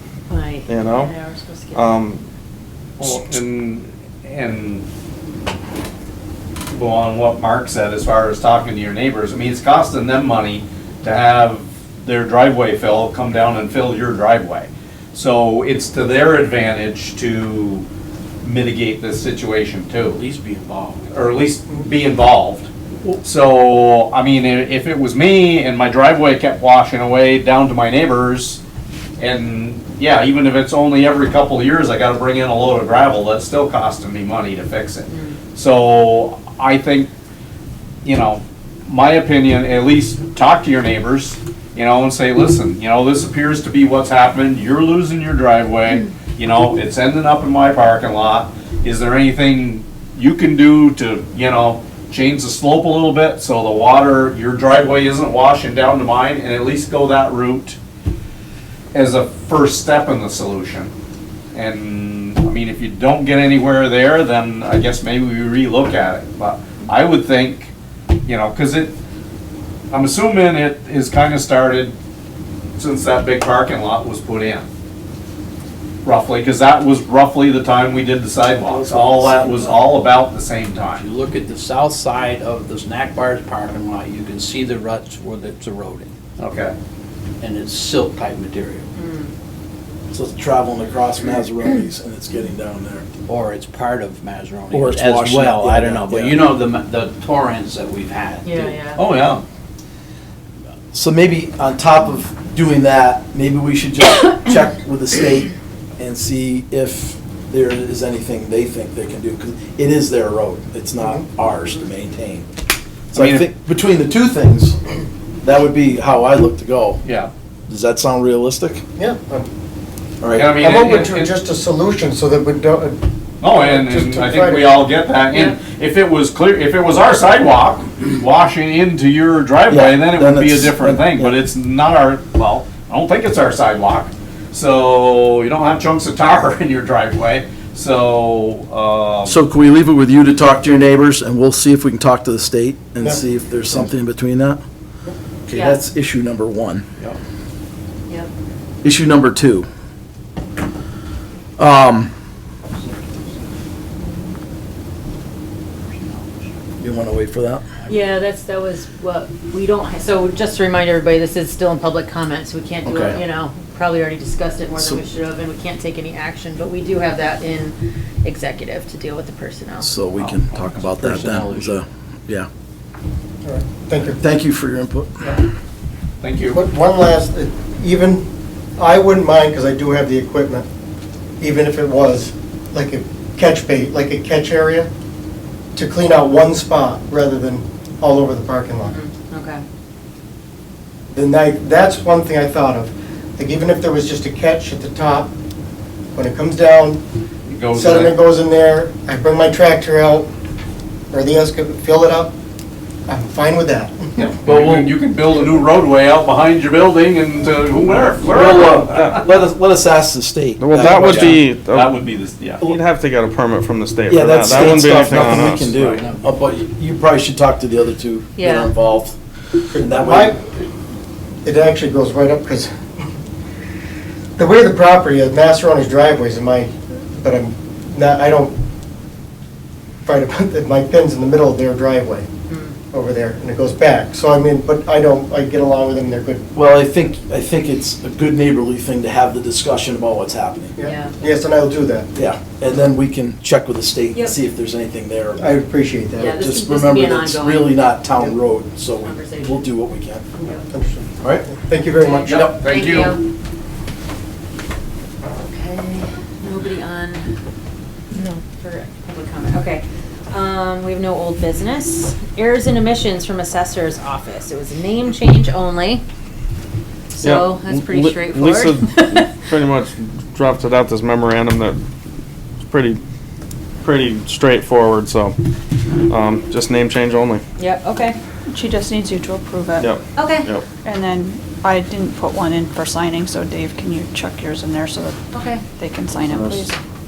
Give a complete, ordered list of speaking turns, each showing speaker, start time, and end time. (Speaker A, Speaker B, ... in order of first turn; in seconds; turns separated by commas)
Speaker A: 0.3-2.2, Speaker B: 0.7-1.1, Speaker B: 1.7-2.2, Speaker C: 3.0-4.9, Speaker C: 6.7-17.9, Speaker C: 18.4-20.2, Speaker D: 20.1-21.2, Speaker C: 21.1-22.7, Speaker C: 23.2-28.6, Speaker C: 29.2-37.1, Speaker A: 35.1-35.4, Speaker C: 38.0-57.8, Speaker C: 58.9-60.9, Speaker C: 61.5-67.7, Speaker C: 68.3-69.0, Speaker C: 69.9-72.0, Speaker C: 72.8-74.7, Speaker C: 76.0-81.0, Speaker D: 78.7-79.8, Speaker E: 78.7-79.6, Speaker D: 80.9-86.2, Speaker C: 86.4-86.8, Speaker D: 87.4-88.9, Speaker A: 89.0-89.3, Speaker E: 90.1-93.1, Speaker D: 93.3-98.8, Speaker E: 94.7-96.5, Speaker A: 98.4-99.0, Speaker C: 99.0-99.4, Speaker E: 100.9-112.5, Speaker F: 111.0-111.3, Speaker C: 113.1-113.5, Speaker E: 113.1-114.8, Speaker E: 115.4-117.0, Speaker C: 117.0-117.3, Speaker E: 117.7-118.8, Speaker F: 119.0-119.5, Speaker E: 120.2-120.5, Speaker C: 120.3-121.3, Speaker F: 120.6-124.8, Speaker C: 123.4-139.4, Speaker E: 129.7-131.3, Speaker E: 139.2-144.6, Speaker E: 145.5-146.9, Speaker A: 145.5-145.8, Speaker E: 148.8-149.7, Speaker E: 151.6-152.1, Speaker D: 155.9-156.5, Speaker E: 156.8-157.7, Speaker A: 157.9-169.9, Speaker E: 162.9-163.2, Speaker E: 169.8-172.5, Speaker C: 170.2-170.9, Speaker D: 171.0-171.7, Speaker F: 173.4-174.2, Speaker E: 174.2-175.3, Speaker C: 176.2-176.6, Speaker F: 176.5-178.2, Speaker F: 178.8-180.7, Speaker F: 181.4-184.9, Speaker F: 185.8-189.0, Speaker A: 188.9-189.6, Speaker F: 191.1-195.3, Speaker F: 196.1-197.0, Speaker C: 197.5-198.2, Speaker F: 197.7-200.3, Speaker F: 201.1-202.3, Speaker F: 203.1-204.3, Speaker C: 204.2-209.2, Speaker E: 204.4-204.9, Speaker E: 208.3-211.4, Speaker B: 210.6-212.0, Speaker C: 210.7-212.6, Speaker B: 212.6-215.8, Speaker E: 214.1-219.2, Speaker D: 214.5-216.2, Speaker A: 218.4-218.7, Speaker F: 219.7-220.7, Speaker E: 219.7-220.4, Speaker F: 221.4-223.1, Speaker F: 224.4-228.6, Speaker F: 230.1-232.3, Speaker A: 232.5-232.8, Speaker F: 232.9-236.4, Speaker E: 236.6-240.8, Speaker F: 240.8-242.1, Speaker A: 240.8-241.2, Speaker E: 242.2-245.5, Speaker F: 245.4-246.4, Speaker A: 246.2-248.1, Speaker E: 246.2-250.3, Speaker A: 248.9-250.7, Speaker F: 250.4-252.5, Speaker E: 251.2-251.5, Speaker A: 252.0-253.3, Speaker C: 252.3-253.2, Speaker E: 252.3-252.6, Speaker A: 255.4-257.4, Speaker A: 258.4-266.0, Speaker A: 267.1-269.4, Speaker B: 267.2-271.8, Speaker B: 272.7-273.0, Speaker B: 273.8-275.4, Speaker B: 276.0-277.4, Speaker A: 277.6-278.2, Speaker G: 278.5-279.9, Speaker B: 279.8-280.7, Speaker A: 280.1-280.5, Speaker G: 280.8-285.2, Speaker A: 285.3-285.6, Speaker G: 285.8-286.8, Speaker B: 286.3-286.7